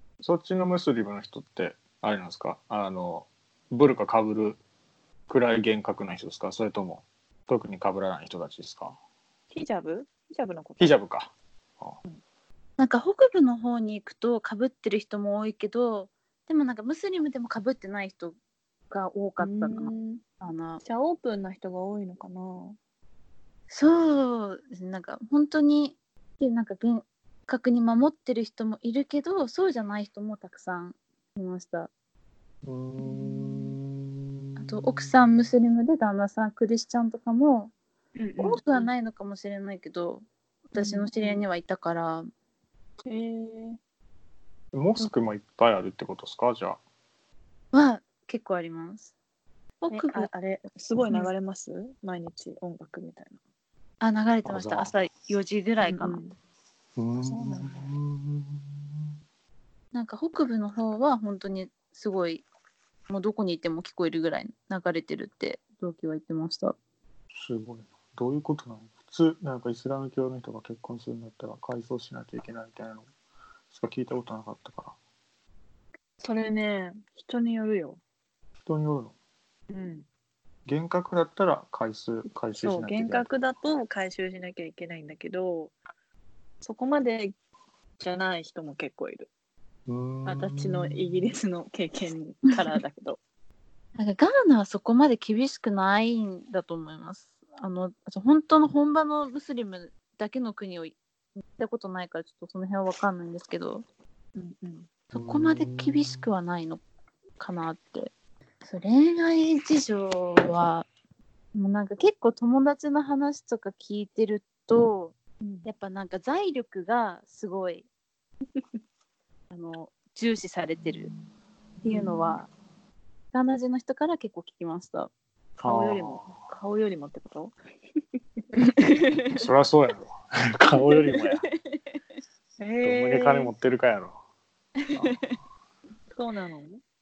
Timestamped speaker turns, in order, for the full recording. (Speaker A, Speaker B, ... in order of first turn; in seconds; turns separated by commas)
Speaker A: 0.2-4.6, Speaker A: 5.3-9.0, Speaker B: 9.5-11.0, Speaker A: 10.8-12.0, Speaker C: 12.8-18.4, Speaker C: 18.9-20.8, Speaker B: 19.4-20.2, Speaker B: 20.8-22.8, Speaker C: 23.7-31.9, Speaker A: 32.6-35.4, Speaker B: 33.0-33.8, Speaker C: 34.6-37.7, Speaker B: 38.1-38.6, Speaker C: 38.4-42.3, Speaker B: 40.8-41.4, Speaker B: 43.0-43.8, Speaker A: 44.7-46.8, Speaker C: 47.7-49.1, Speaker B: 49.8-53.4, Speaker C: 49.9-50.3, Speaker C: 54.0-56.2, Speaker A: 54.4-54.9, Speaker B: 55.8-56.3, Speaker A: 57.0-59.1, Speaker B: 57.2-57.9, Speaker C: 59.9-62.4, Speaker C: 63.1-66.7, Speaker A: 67.3-73.1, Speaker A: 73.7-75.0, Speaker B: 76.2-78.0, Speaker A: 78.7-79.1, Speaker B: 79.7-80.0, Speaker A: 80.7-83.3, Speaker B: 82.6-85.7, Speaker B: 86.6-87.3, Speaker B: 88.0-89.3, Speaker A: 89.9-91.3, Speaker B: 90.2-93.2, Speaker C: 94.0-101.0, Speaker C: 101.6-103.8, Speaker B: 104.3-104.9, Speaker C: 105.1-106.8, Speaker A: 105.1-106.3, Speaker C: 107.4-108.1, Speaker C: 108.6-110.9, Speaker C: 111.5-117.8, Speaker B: 115.4-115.7, Speaker C: 119.5-121.1, Speaker C: 121.8-122.5, Speaker B: 121.9-122.4, Speaker C: 123.3-125.1, Speaker A: 125.6-126.4, Speaker B: 125.6-127.5, Speaker C: 128.6-129.4, Speaker A: 129.3-131.4, Speaker C: 131.0-132.0, Speaker B: 132.6-133.5, Speaker A: 132.8-134.2, Speaker C: 134.8-135.3, Speaker A: 134.9-135.3, Speaker B: 136.1-136.8